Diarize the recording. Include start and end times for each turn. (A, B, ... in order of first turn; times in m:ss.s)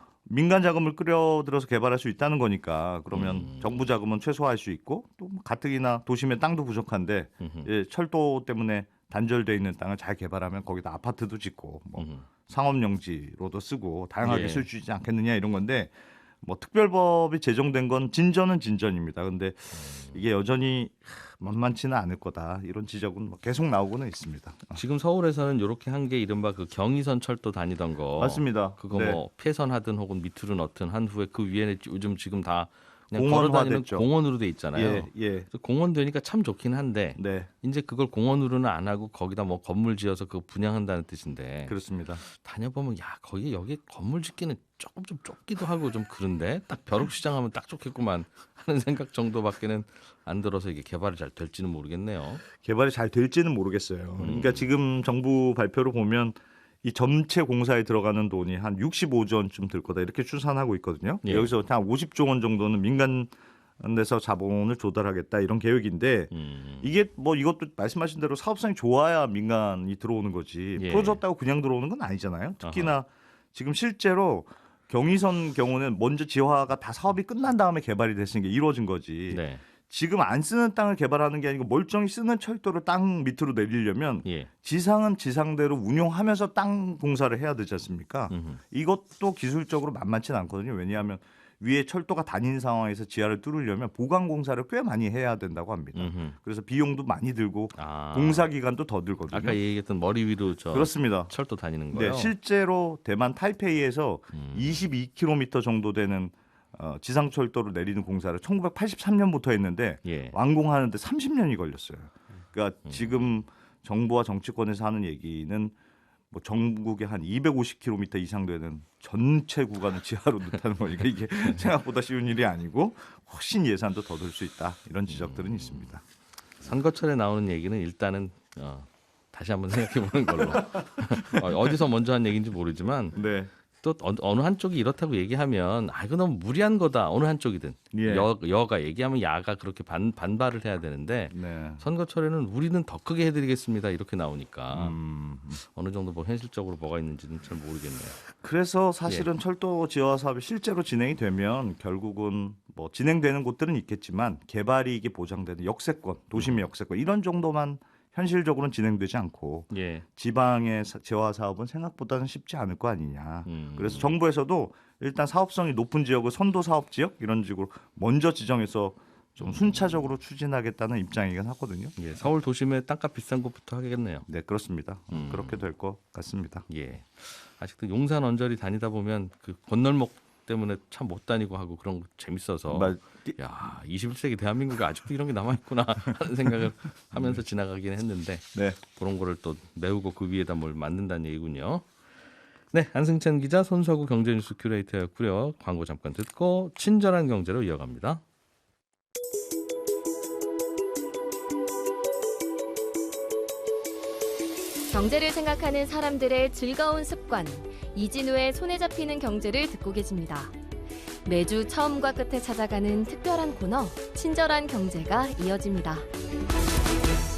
0:00.2-0:24.8 A
0:03.1-0:03.8 B
0:07.4-0:07.7 B
0:12.0-0:12.2 B
0:14.2-0:14.7 B
0:19.8-0:20.2 B
0:24.7-0:41.7 B
0:28.2-0:29.2 A
0:33.1-0:34.1 A
0:34.7-0:35.5 A
0:37.2-0:37.5 A
0:41.7-0:42.2 A
0:42.2-0:52.4 B
0:52.6-1:39.6 A
0:54.2-0:54.6 B
1:01.2-1:01.5 B
1:06.3-1:06.8 B
1:10.8-1:11.2 B
1:12.6-1:13.0 B
1:19.3-1:19.6 B
1:28.3-1:28.6 B
1:35.9-1:36.3 B
1:37.7-1:38.5 B
1:39.3-1:42.3 B
1:40.7-1:41.3 A
1:41.9-1:55.7 A
1:44.3-1:44.9 B
1:50.0-1:50.3 B
1:56.3-2:06.0 A
2:05.1-2:05.9 B
2:06.6-2:13.2 B
2:13.2-2:13.5 A
2:13.8-2:24.9 B
2:17.9-2:18.3 A
2:21.3-2:21.8 A
2:24.7-2:25.6 A
2:25.6-2:28.2 B
2:28.3-2:52.0 A
2:36.4-2:36.6 B
2:39.7-2:40.0 B
2:43.4-2:44.2 B
2:49.4-2:49.8 B
2:52.0-2:54.2 B
2:54.3-2:56.6 A
2:55.1-2:55.6 B
2:56.7-3:11.9 B
3:02.7-3:03.4 A
3:12.7-3:18.2 B
3:24.9-3:30.5 C
3:31.2-3:36.1 C